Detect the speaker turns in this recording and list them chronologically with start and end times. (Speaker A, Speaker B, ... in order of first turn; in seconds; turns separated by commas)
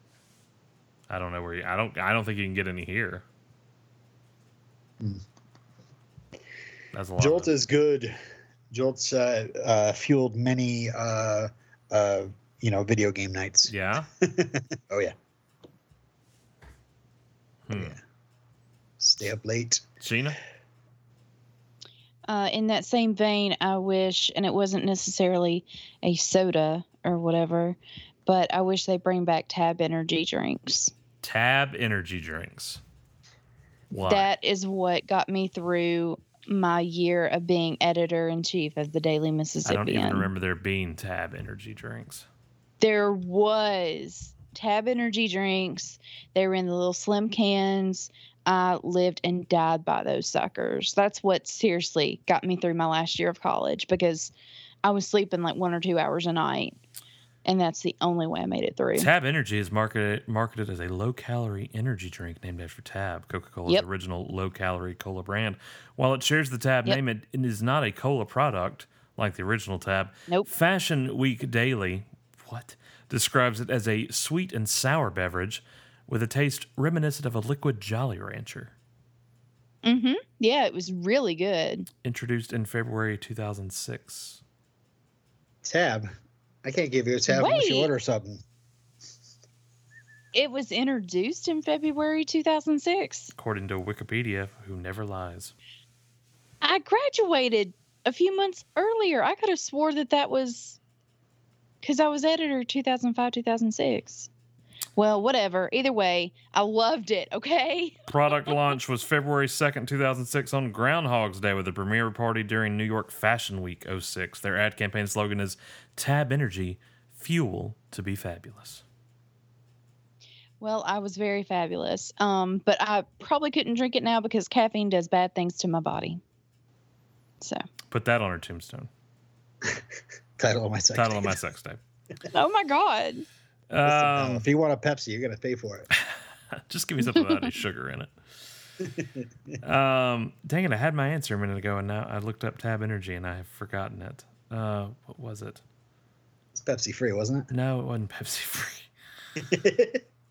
Speaker A: 1.1-3.2, Speaker A: 6.9-7.5, Speaker B: 7.2-8.1, Speaker B: 8.7-15.1, Speaker A: 13.7-14.1, Speaker A: 17.7-17.9, Speaker B: 17.7-18.0, Speaker B: 19.0-19.8, Speaker A: 20.0-20.4, Speaker C: 22.3-30.9, Speaker A: 31.2-32.8, Speaker A: 33.9-34.3, Speaker C: 34.0-40.3, Speaker A: 39.6-42.2, Speaker C: 42.8-56.8, Speaker C: 57.4-59.1, Speaker A: 59.0-78.7, Speaker C: 79.8-81.9, Speaker A: 82.0-84.4, Speaker B: 85.6-86.1, Speaker B: 86.6-88.4, Speaker C: 87.3-87.9, Speaker C: 90.3-93.3, Speaker A: 93.3-95.5, Speaker C: 96.6-100.8, Speaker C: 101.8-104.3, Speaker C: 105.0-108.0, Speaker A: 108.1-118.8, Speaker C: 120.6-126.2, Speaker A: 127.9-128.9, Speaker B: 130.4-131.4, Speaker A: 130.9-131.8, Speaker C: 132.3-133.2, Speaker A: 133.7-134.4, Speaker B: 133.8-135.9, Speaker A: 136.7-138.1, Speaker C: 137.0-137.4, Speaker B: 138.8-139.6, Speaker A: 139.6-145.6, Speaker B: 146.5-147.5, Speaker A: 147.5-148.9, Speaker B: 149.4-150.0